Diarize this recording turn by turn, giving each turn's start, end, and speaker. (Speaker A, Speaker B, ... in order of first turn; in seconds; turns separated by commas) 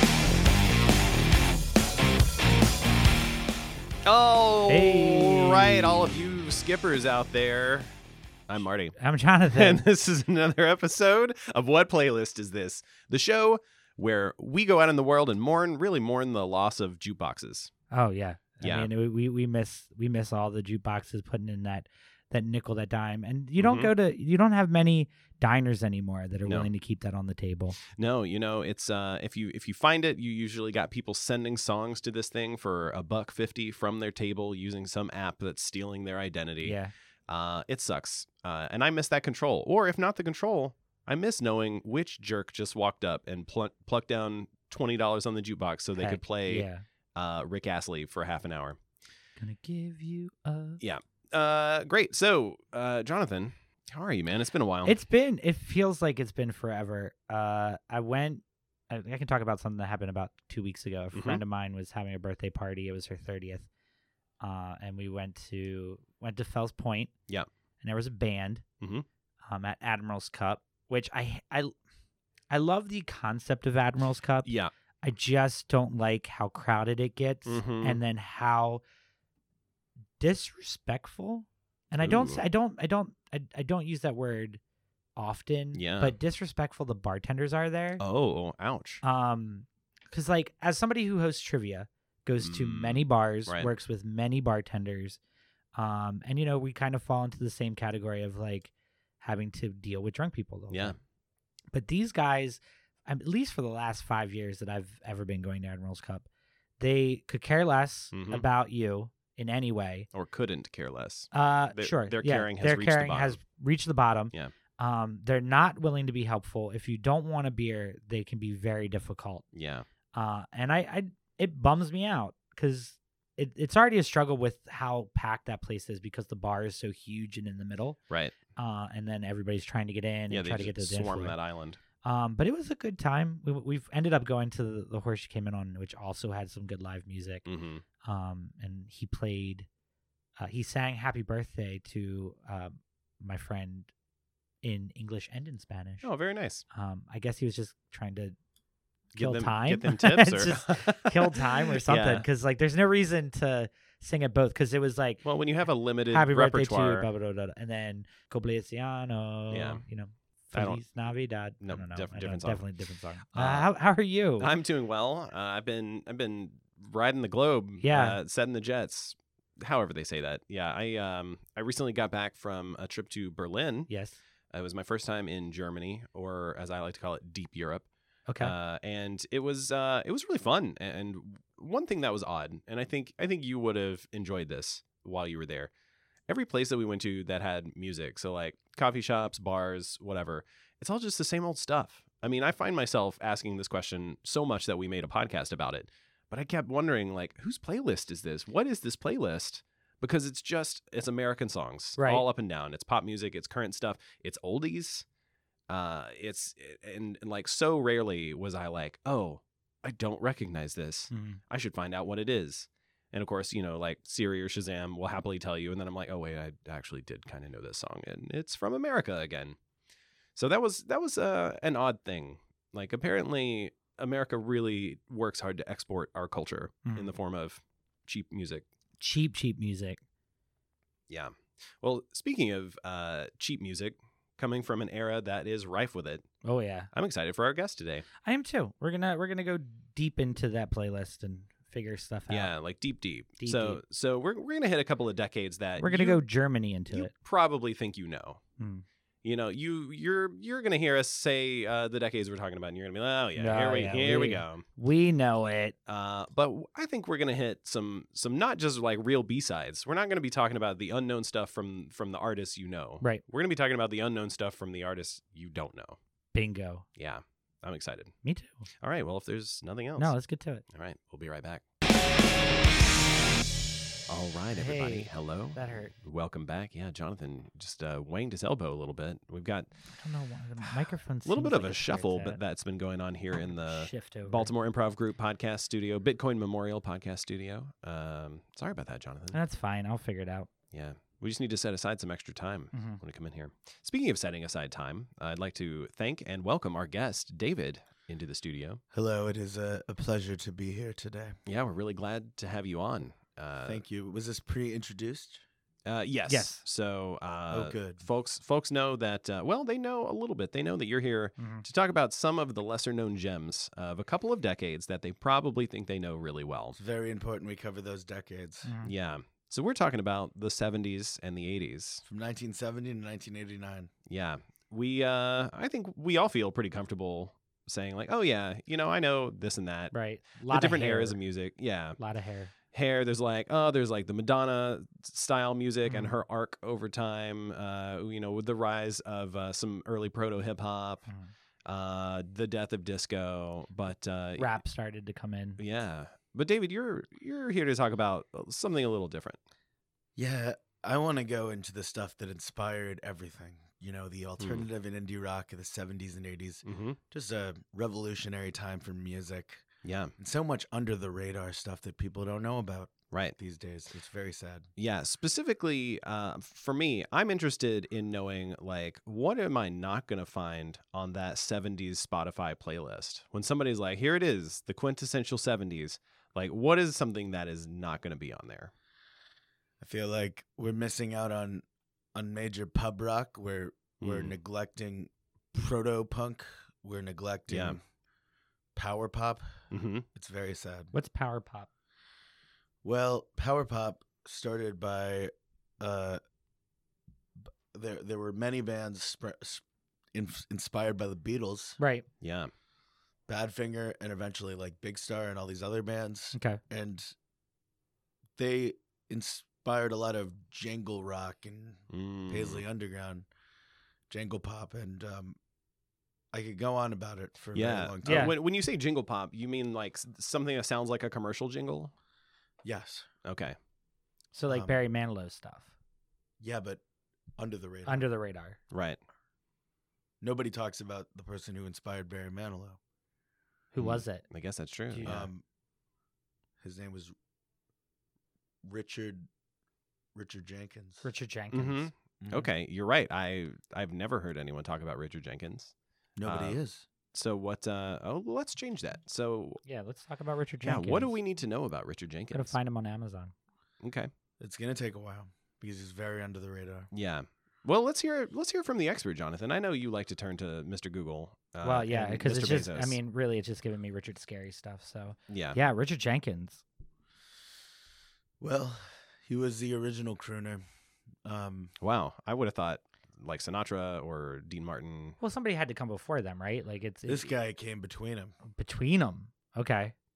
Speaker A: 4.0-7.9, Speaker B: 4.7-6.1, Speaker A: 8.5-8.9, Speaker B: 9.0-9.8, Speaker A: 9.5-17.7, Speaker B: 17.9-27.8, Speaker A: 18.6-18.9, Speaker A: 23.6-23.9, Speaker A: 26.4-26.7, Speaker A: 27.9-36.8, Speaker B: 36.6-36.9, Speaker A: 37.3-48.8, Speaker B: 46.0-46.8, Speaker B: 49.4-50.8, Speaker A: 50.8-55.0, Speaker B: 54.8-63.7, Speaker A: 61.1-61.4, Speaker B: 64.4-67.1, Speaker B: 67.8-68.6, Speaker A: 68.8-69.0, Speaker B: 69.5-71.7, Speaker B: 72.5-74.5, Speaker A: 74.4-74.7, Speaker B: 75.0-78.8, Speaker A: 77.5-78.0, Speaker B: 80.2-84.6, Speaker A: 82.0-82.4, Speaker B: 85.2-88.0, Speaker A: 85.7-86.2, Speaker A: 88.0-89.0, Speaker B: 89.0-95.2, Speaker A: 92.4-93.7, Speaker B: 95.7-101.0, Speaker A: 100.7-101.0, Speaker B: 101.7-106.3, Speaker B: 106.8-110.1, Speaker A: 108.1-108.4, Speaker A: 110.1-113.4, Speaker B: 111.3-119.4, Speaker A: 119.5-119.8, Speaker B: 120.1-128.0, Speaker A: 128.1-128.3, Speaker B: 128.6-131.3, Speaker A: 130.3-131.8, Speaker B: 132.0-137.5, Speaker A: 137.4-137.8, Speaker B: 138.0-139.7, Speaker B: 140.4-143.9, Speaker B: 144.6-146.1, Speaker A: 146.0-146.6, Speaker B: 146.7-148.3, Speaker A: 149.1-152.3, Speaker B: 149.1-155.2, Speaker A: 155.2-157.1, Speaker B: 156.1-164.5, Speaker A: 159.5-159.8, Speaker A: 160.5-161.0, Speaker A: 161.6-162.7, Speaker A: 163.3-163.7, Speaker A: 164.4-173.9, Speaker B: 167.8-168.2, Speaker B: 173.9-174.2, Speaker A: 174.5-177.9, Speaker A: 178.4-185.7, Speaker A: 186.3-205.1, Speaker B: 202.0-202.2, Speaker A: 205.7-219.6, Speaker B: 211.1-211.4, Speaker A: 220.3-228.6, Speaker B: 229.0-230.0, Speaker A: 231.1-236.2, Speaker B: 236.4-236.9, Speaker A: 236.9-238.1, Speaker B: 238.2-242.5, Speaker A: 242.3-246.2, Speaker B: 243.4-243.8, Speaker B: 245.8-247.1, Speaker A: 246.9-248.4, Speaker B: 248.6-248.8, Speaker A: 249.2-254.7, Speaker B: 253.3-255.7, Speaker A: 255.9-266.0, Speaker B: 266.3-266.9, Speaker A: 267.0-268.1, Speaker B: 268.2-268.7, Speaker A: 268.8-271.6, Speaker B: 270.0-270.6, Speaker A: 274.1-279.7, Speaker B: 274.5-275.9, Speaker B: 279.9-282.4, Speaker A: 280.6-289.4, Speaker B: 283.4-284.5, Speaker B: 289.3-290.5, Speaker A: 290.7-298.8, Speaker B: 292.7-293.0, Speaker C: 298.9-301.4, Speaker A: 301.4-303.8, Speaker C: 303.6-305.4, Speaker A: 305.8-316.8, Speaker B: 306.3-306.6, Speaker C: 307.5-308.0, Speaker B: 311.4-311.6, Speaker C: 316.8-318.7, Speaker B: 318.6-318.9, Speaker A: 318.8-322.0, Speaker C: 322.0-323.9, Speaker A: 324.1-332.0, Speaker B: 329.9-331.2, Speaker B: 332.0-332.5, Speaker A: 332.7-341.1, Speaker B: 335.9-336.1, Speaker A: 341.6-344.6, Speaker B: 344.4-345.6, Speaker A: 345.6-349.4, Speaker C: 350.1-359.6, Speaker A: 354.4-354.6, Speaker A: 356.6-357.0, Speaker A: 359.8-360.1, Speaker C: 360.2-364.7, Speaker A: 364.8-378.7, Speaker C: 379.8-381.6, Speaker C: 382.1-387.8, Speaker A: 384.0-384.4, Speaker A: 387.5-387.8, Speaker C: 388.7-389.5, Speaker A: 389.7-390.0, Speaker C: 390.1-390.9, Speaker B: 390.9-391.7, Speaker C: 392.8-396.2, Speaker C: 397.4-401.8, Speaker B: 401.8-402.1, Speaker A: 402.2-402.5, Speaker C: 403.3-407.1, Speaker B: 406.3-406.6, Speaker C: 408.4-413.3, Speaker A: 411.9-412.6, Speaker C: 414.1-415.4, Speaker C: 416.3-418.3, Speaker A: 417.5-421.9, Speaker B: 418.0-418.3, Speaker C: 422.6-423.1, Speaker A: 423.2-423.6, Speaker B: 424.3-425.7, Speaker C: 424.5-424.8, Speaker C: 426.4-426.8, Speaker C: 427.4-428.0, Speaker B: 427.9-428.6, Speaker A: 428.7-429.0, Speaker C: 430.2-432.8, Speaker B: 433.7-434.2, Speaker A: 433.8-435.2, Speaker B: 434.9-435.2, Speaker C: 435.0-435.4, Speaker C: 436.6-437.1, Speaker C: 438.6-439.3, Speaker C: 440.1-441.1, Speaker B: 441.0-441.9, Speaker A: 441.5-445.7, Speaker C: 442.2-442.5, Speaker C: 446.2-446.9, Speaker A: 446.2-446.6, Speaker A: 447.1-449.6, Speaker B: 449.6-451.1, Speaker A: 450.6-452.5, Speaker B: 452.3-453.3, Speaker A: 453.8-454.1, Speaker C: 454.4-456.9, Speaker A: 456.9-463.0, Speaker B: 461.6-466.6, Speaker A: 465.3-465.6, Speaker C: 468.4-470.6, Speaker C: 471.2-471.7, Speaker A: 471.8-475.2, Speaker B: 475.2-477.3, Speaker C: 477.1-478.3, Speaker B: 478.5-479.9